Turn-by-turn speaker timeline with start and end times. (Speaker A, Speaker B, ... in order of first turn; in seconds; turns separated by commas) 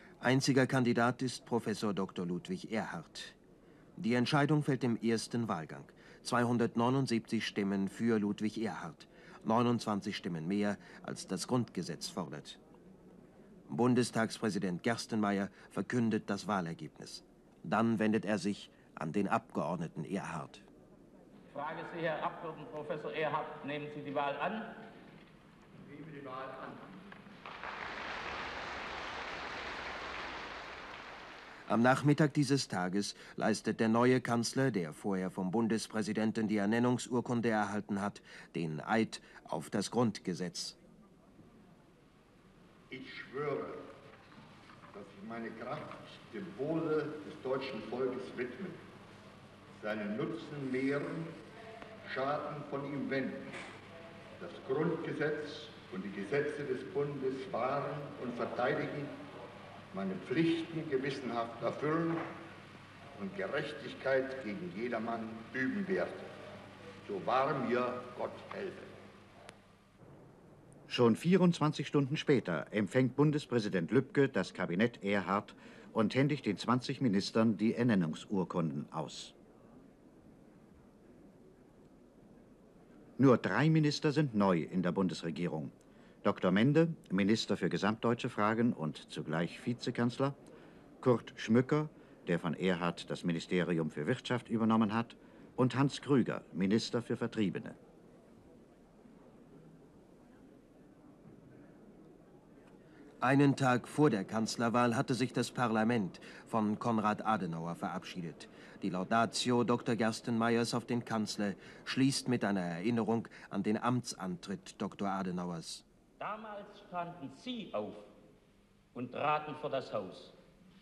Speaker A: 0.2-3.4, Speaker A: 4.0-12.6, Speaker A: 13.7-20.6, Speaker B: 21.5-24.8, Speaker B: 26.2-26.8, Speaker A: 31.7-40.8, Speaker C: 42.9-43.8, Speaker C: 44.9-48.8, Speaker C: 49.7-51.4, Speaker C: 52.0-53.6, Speaker C: 54.4-59.1, Speaker C: 59.9-62.3, Speaker C: 63.2-66.3, Speaker C: 67.0-69.0, Speaker D: 70.9-79.3, Speaker D: 83.2-90.4, Speaker D: 91.0-97.8, Speaker A: 103.2-115.8, Speaker B: 116.2-118.1, Speaker B: 118.9-120.4